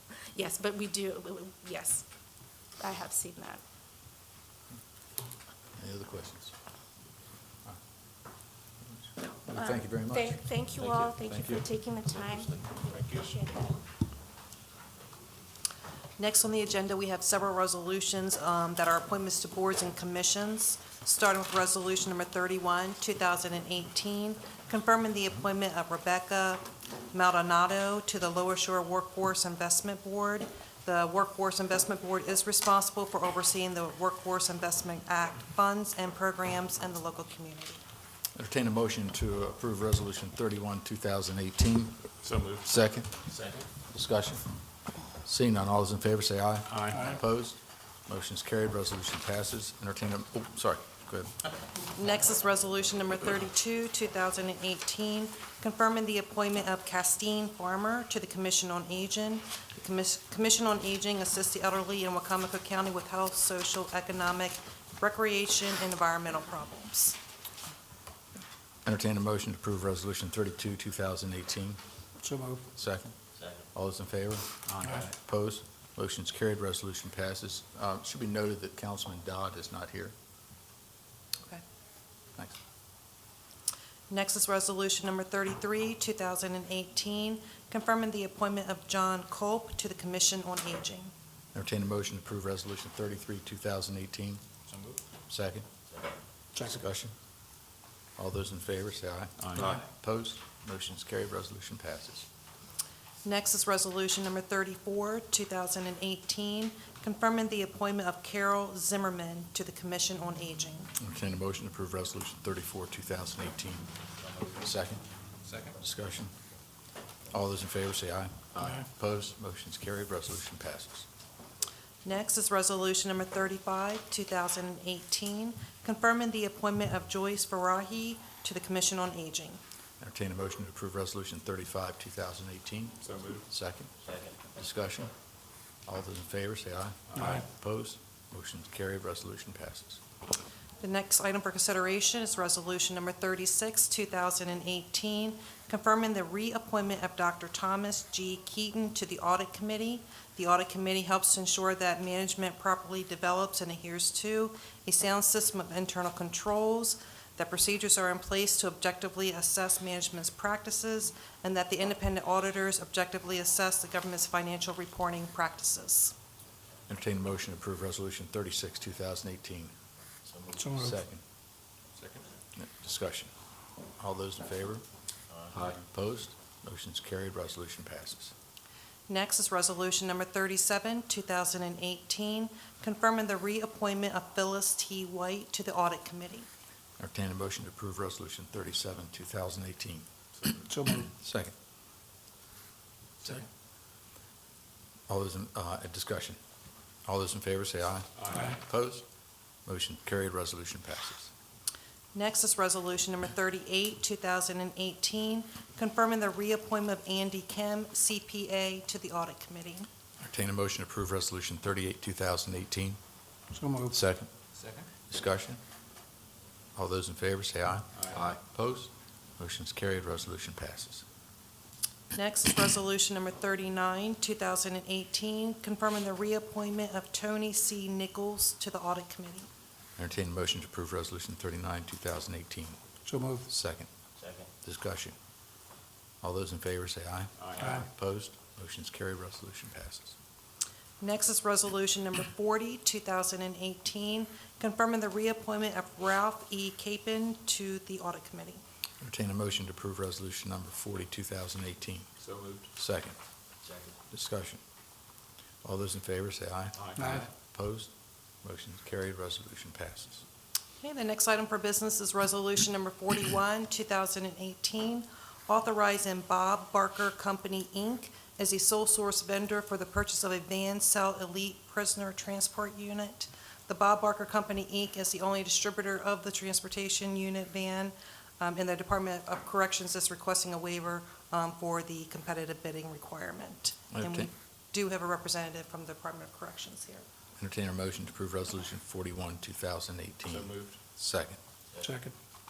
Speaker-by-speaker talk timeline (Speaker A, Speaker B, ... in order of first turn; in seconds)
Speaker A: 0.3-2.0, 2.8-3.6, 9.5-13.8
Speaker B: 5.8-6.5, 8.9-11.7, 12.3-12.5, 38.4-42.1, 42.6-43.2, 43.8-44.5, 45.2-51.4, 68.8-71.8, 72.8-73.2, 73.7-80.1, 91.5-94.4, 95.3-95.7, 96.6-97.2, 98.2-102.3, 111.0-113.9, 114.4-115.0, 115.8-116.3, 117.3-121.1, 130.0-135.1, 135.9-140.0, 166.9-169.7, 170.7-171.2, 172.6-173.3, 174.0-174.8, 175.5-178.3, 187.0-190.1, 191.0-191.5, 195.1-196.4, 197.1-199.1, 199.7-201.3, 210.2-213.0, 213.9-214.3, 215.1-215.6, 216.8-221.0, 230.0-232.8, 233.5-233.9, 234.6-235.2, 236.2-240.2, 249.0-252.1, 252.8-253.2, 254.1-254.6, 255.6-257.9, 258.4-260.2, 283.9-284.3, 287.4-291.4
Speaker C: 16.2-37.8, 51.9-67.2, 84.1-91.1, 103.2-110.9, 122.0-129.6, 140.8-166.2, 179.1-186.5, 202.1-209.9, 222.1-229.5, 241.0-248.6, 260.8-287.1
Speaker D: 42.2-42.7, 43.3-43.6, 46.7-47.1, 74.8-75.0, 94.7-95.0, 99.4-99.8, 115.5-115.8, 133.0-133.4, 172.0-172.2, 190.4-190.6, 198.2-198.5, 214.6-214.9, 218.0-218.2, 237.4-237.8, 252.2-252.7, 256.8-257.2
Speaker E: 72.2-72.6, 137.2-137.4, 170.5-170.9, 190.7-191.1, 213.5-213.9, 233.1-233.5, 257.0-257.3, 291.8-292.1